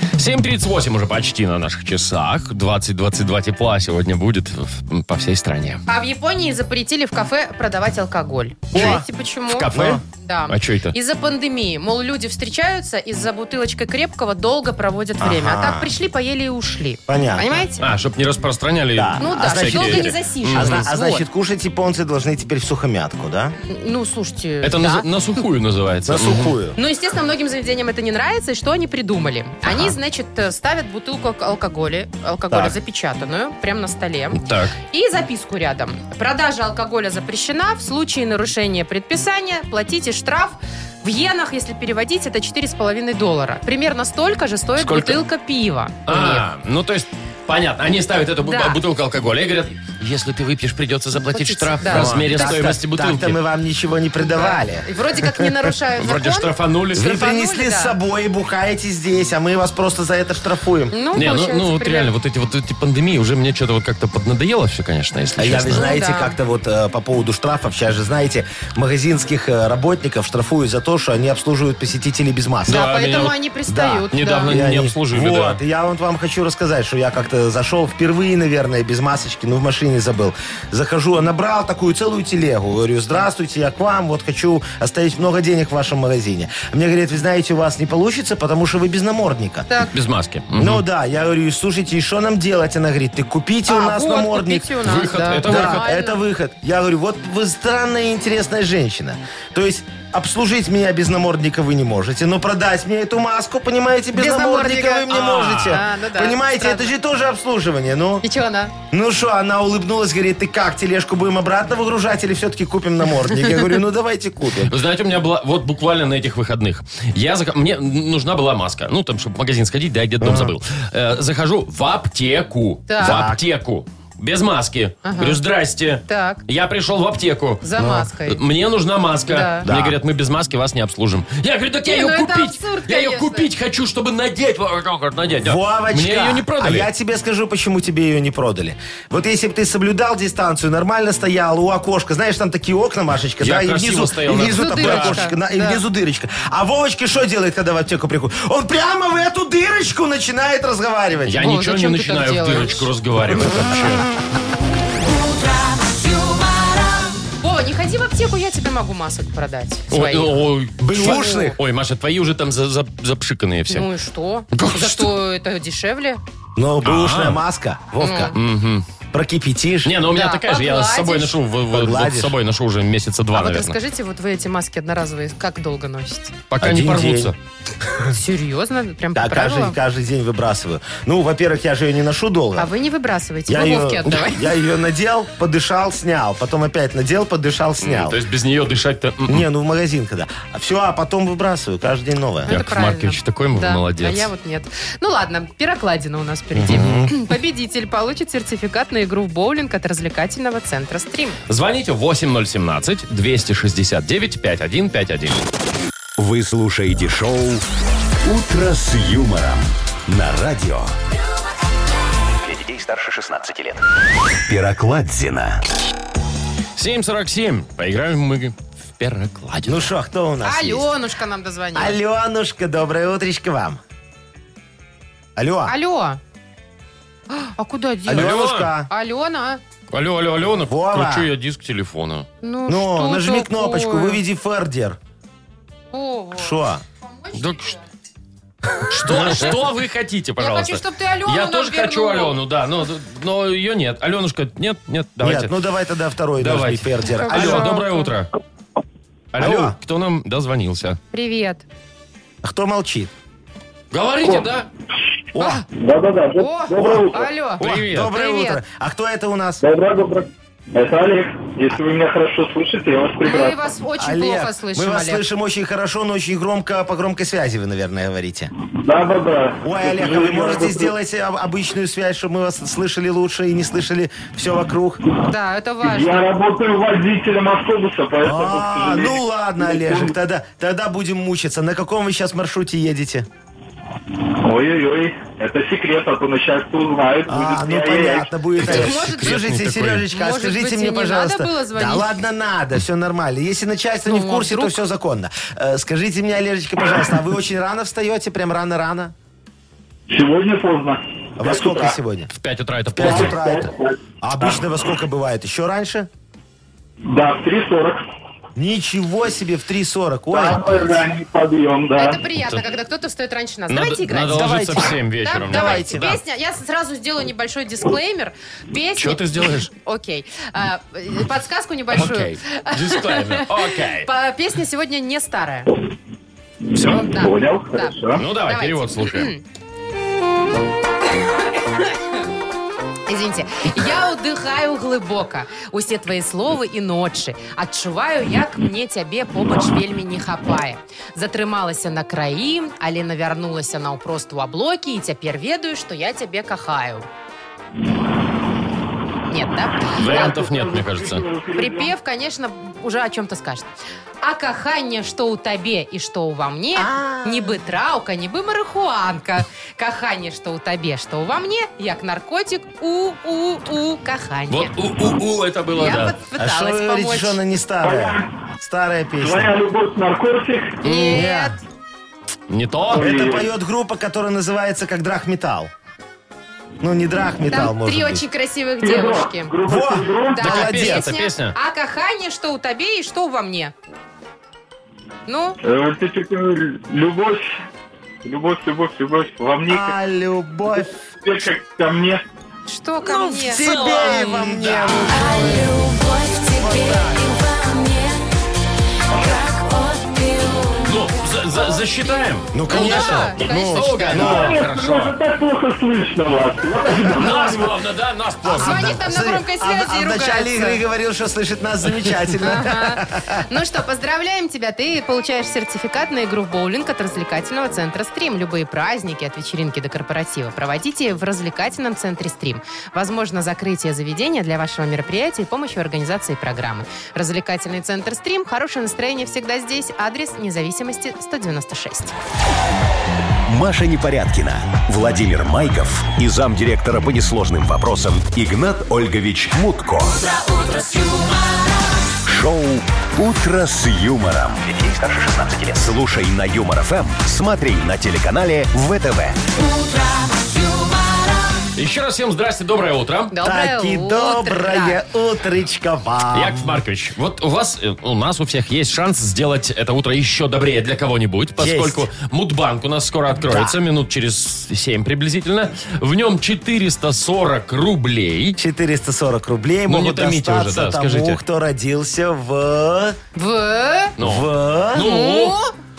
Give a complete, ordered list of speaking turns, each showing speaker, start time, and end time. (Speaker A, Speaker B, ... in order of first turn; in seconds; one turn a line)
Speaker A: 0.2-5.8
Speaker B: 5.9-17.8
Speaker A: 8.7-10.9
Speaker C: 8.7-9.0
Speaker C: 9.7-10.0
Speaker C: 15.2-15.9
Speaker C: 17.1-17.6
Speaker A: 17.8-20.9
Speaker C: 18.9-23.6
Speaker B: 19.2-21.2
Speaker B: 23.7-25.1
Speaker A: 24.6-26.6
Speaker C: 26.1-26.8
Speaker B: 26.8-46.4
Speaker A: 34.3-34.7
Speaker A: 44.8-45.2
Speaker A: 46.0-53.4
Speaker B: 48.4-48.8
Speaker B: 51.3-52.6
Speaker C: 51.8-55.5
Speaker B: 54.3-58.0
Speaker A: 56.0-57.1
Speaker C: 56.9-61.0
Speaker B: 60.9-62.1
Speaker A: 61.1-65.9
Speaker C: 65.4-72.8
Speaker B: 65.7-66.4
Speaker B: 72.7-74.5
Speaker A: 72.7-75.6
Speaker C: 74.5-89.7
Speaker A: 89.9-90.8
Speaker C: 90.5-108.2
Speaker B: 93.7-96.2
Speaker A: 94.8-95.8
Speaker B: 104.2-106.9
Speaker A: 105.1-105.8
Speaker B: 108.2-108.7
Speaker C: 108.9-114.7
Speaker A: 114.6-127.7
Speaker C: 120.2-120.5
Speaker B: 122.9-123.2
Speaker C: 123.0-123.4
Speaker B: 125.0-125.4
Speaker B: 126.1-126.4
Speaker B: 127.6-128.4
Speaker C: 127.8-128.1
Speaker A: 128.2-136.9
Speaker B: 129.3-129.7
Speaker C: 129.6-130.0
Speaker B: 131.8-133.5
Speaker C: 135.4-151.4
Speaker A: 143.4-145.2
Speaker B: 144.4-145.8
Speaker A: 151.3-154.1
Speaker B: 151.4-152.9
Speaker D: 155.0-157.2
Speaker B: 157.4-161.6
Speaker A: 159.9-163.9
Speaker C: 160.8-161.6
Speaker B: 163.7-166.2
Speaker A: 164.5-165.1
Speaker C: 166.6-168.3
Speaker A: 166.8-167.4
Speaker B: 168.0-168.3
Speaker A: 168.3-168.8
Speaker C: 169.1-170.0
Speaker A: 169.8-173.8
Speaker B: 170.1-171.3
Speaker C: 171.7-172.3
Speaker B: 173.3-176.3
Speaker A: 176.5-177.3
Speaker C: 176.6-177.3
Speaker B: 178.1-179.8
Speaker C: 179.1-182.7
Speaker B: 182.6-184.4
Speaker C: 183.5-188.2
Speaker A: 187.8-189.4
Speaker C: 189.2-192.6
Speaker A: 192.5-194.3
Speaker B: 192.5-201.4
Speaker C: 196.5-197.1
Speaker A: 201.5-205.4
Speaker E: 206.2-207.6
Speaker E: 208.2-210.9
Speaker F: 212.4-213.8
Speaker E: 214.5-215.6
Speaker A: 216.8-219.9
Speaker C: 219.6-220.9
Speaker B: 220.4-222.0
Speaker C: 221.7-223.8
Speaker C: 225.3-225.7
Speaker B: 225.7-226.2
Speaker B: 227.3-229.6
Speaker C: 228.1-228.9
Speaker A: 228.1-228.7
Speaker A: 229.9-232.3
Speaker C: 230.7-231.3
Speaker B: 232.4-234.2
Speaker C: 232.7-235.0
Speaker B: 235.9-237.7
Speaker C: 236.3-236.8
Speaker A: 237.3-237.8
Speaker A: 238.9-245.6
Speaker C: 239.1-239.6
Speaker B: 240.4-242.4
Speaker C: 245.2-247.7
Speaker A: 246.4-248.3
Speaker B: 247.1-248.1
Speaker A: 249.3-251.0
Speaker C: 249.4-249.8
Speaker B: 251.1-251.7
Speaker C: 252.4-253.1
Speaker A: 253.9-254.7
Speaker C: 255.3-255.6
Speaker G: 255.7-257.3
Speaker B: 256.4-258.6
Speaker A: 257.6-258.1
Speaker C: 257.6-259.6
Speaker G: 259.6-263.6
Speaker B: 263.2-265.2
Speaker C: 264.0-268.5
Speaker G: 268.8-270.9
Speaker C: 269.6-275.0
Speaker B: 275.2-276.2
Speaker G: 275.8-280.1
Speaker C: 278.2-283.3
Speaker G: 284.4-288.3
Speaker C: 287.3-299.1
Speaker B: 288.6-289.4
Speaker A: 288.6-290.1
Speaker B: 290.1-292.1
Speaker B: 294.1-294.8
Speaker G: 300.1-302.0
Speaker C: 301.4-302.3
Speaker A: 302.4-303.6
Speaker C: 302.9-306.1
Speaker G: 303.0-304.6
Speaker G: 307.0-308.0
Speaker C: 308.6-310.7
Speaker G: 310.3-312.2
Speaker B: 311.9-325.7
Speaker A: 313.7-316.2
Speaker C: 314.3-314.9
Speaker C: 315.4-316.1
Speaker A: 319.0-319.7
Speaker A: 321.9-324.1
Speaker B: 326.8-329.4
Speaker G: 326.9-328.2
Speaker A: 328.2-329.3
Speaker B: 333.1-347.1
Speaker B: 349.3-350.2
Speaker A: 349.9-351.3
Speaker G: 350.0-351.9
Speaker B: 351.5-353.7
Speaker B: 354.2-364.8
Speaker C: 356.7-357.6
Speaker A: 364.5-366.2
Speaker B: 365.7-367.4
Speaker C: 366.4-369.5
Speaker G: 367.8-368.3
Speaker G: 369.2-370.8
Speaker B: 370.8-371.6
Speaker A: 370.8-371.3
Speaker C: 371.1-371.6
Speaker A: 372.5-373.1
Speaker G: 372.9-373.5
Speaker C: 372.9-375.7
Speaker C: 376.8-378.2
Speaker B: 377.5-379.6
Speaker G: 378.8-380.4
Speaker C: 379.6-381.1
Speaker B: 380.2-383.7
Speaker A: 380.4-381.6
Speaker B: 385.2-385.6
Speaker G: 385.6-387.5
Speaker G: 388.2-389.9
Speaker C: 389.7-391.0
Speaker G: 391.2-392.2
Speaker B: 392.7-394.5
Speaker C: 393.1-395.8
Speaker A: 393.4-395.0
Speaker D: 395.1-398.3
Speaker B: 395.1-396.0
Speaker C: 396.5-397.3
Speaker D: 399.1-400.9
Speaker A: 400.8-405.1
Speaker B: 401.5-404.4
Speaker C: 402.5-404.6
Speaker G: 404.1-407.8
Speaker A: 407.1-409.0
Speaker C: 408.4-413.4
Speaker B: 408.5-410.8
Speaker B: 412.4-432.1
Speaker E: 433.4-440.2
Speaker D: 440.1-442.1
Speaker E: 442.3-444.6
Speaker F: 444.6-445.9
Speaker E: 445.8-449.4
Speaker D: 449.5-451.7
Speaker A: 451.8-453.3
Speaker B: 453.3-455.0
Speaker C: 453.4-456.8
Speaker A: 456.3-468.6
Speaker C: 461.6-462.1
Speaker C: 463.5-463.7
Speaker C: 468.6-473.2
Speaker A: 469.9-471.4
Speaker B: 473.3-474.1
Speaker C: 474.2-475.1
Speaker A: 474.2-475.6
Speaker B: 474.9-475.7